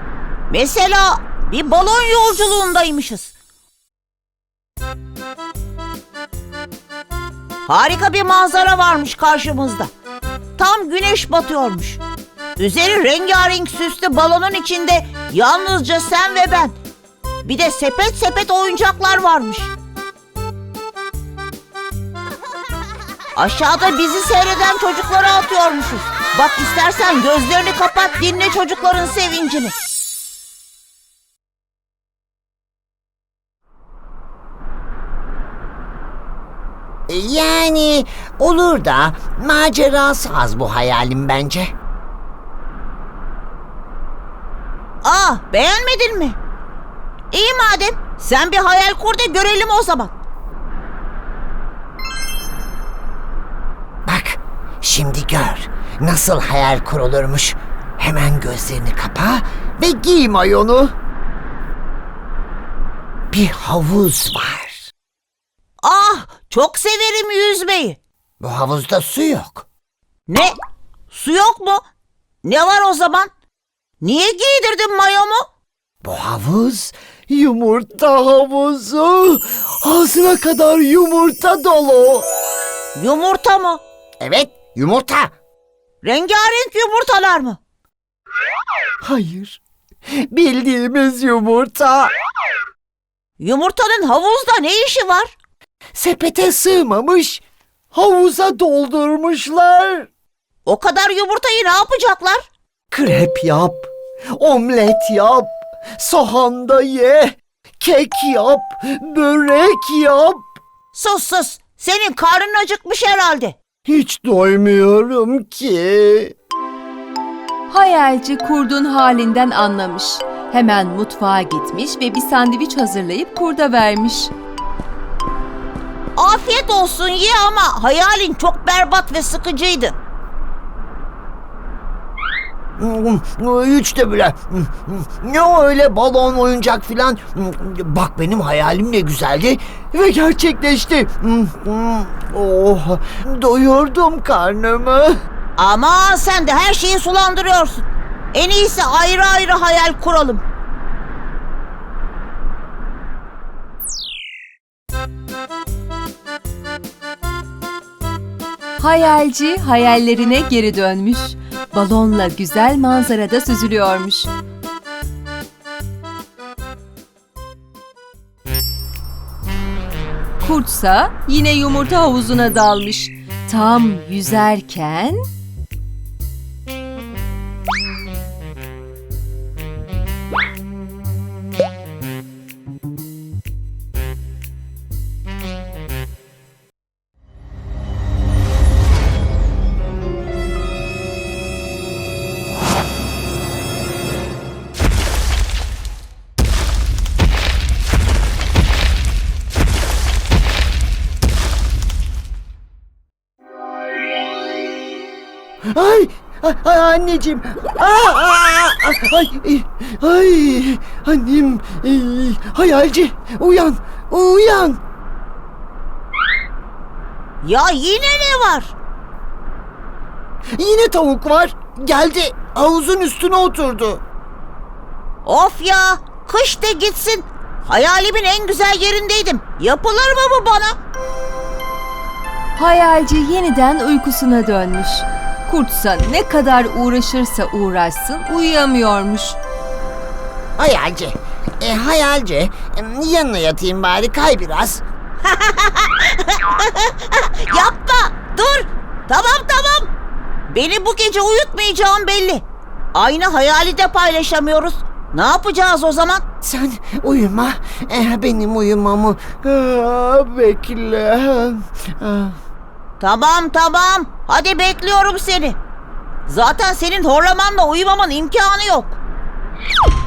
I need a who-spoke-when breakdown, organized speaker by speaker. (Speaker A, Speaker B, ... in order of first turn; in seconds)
Speaker A: 0.5-3.3, 7.7-9.9, 10.6-12.0, 12.6-16.8, 17.4-19.7, 23.4-29.8, 45.0-46.4, 47.3-50.1, 65.8-68.0, 70.3-70.6, 71.1-71.8, 72.4-73.3, 74.0-75.5, 82.9-83.8, 86.0-87.6, 93.4-95.3, 100.7-102.5, 110.9-113.6, 126.2-130.0, 145.6-150.4, 217.4-218.7, 225.2-230.8, 245.2-249.9, 250.5-256.2, 263.0-265.6, 266.3-269.0
Speaker B: 37.1-41.7, 54.0-60.9, 63.3-64.9, 68.4-69.7, 76.0-82.3, 84.2-85.3, 89.0-89.6, 90.3-92.1, 95.9-97.4, 97.9-100.1, 102.9-110.5, 113.8-116.3, 132.8-145.2, 205.7-214.8, 220.6-224.0, 240.6-244.8, 256.4-262.4
Speaker C: 117.7-124.3, 158.8-164.3, 170.4-175.2, 232.6-239.4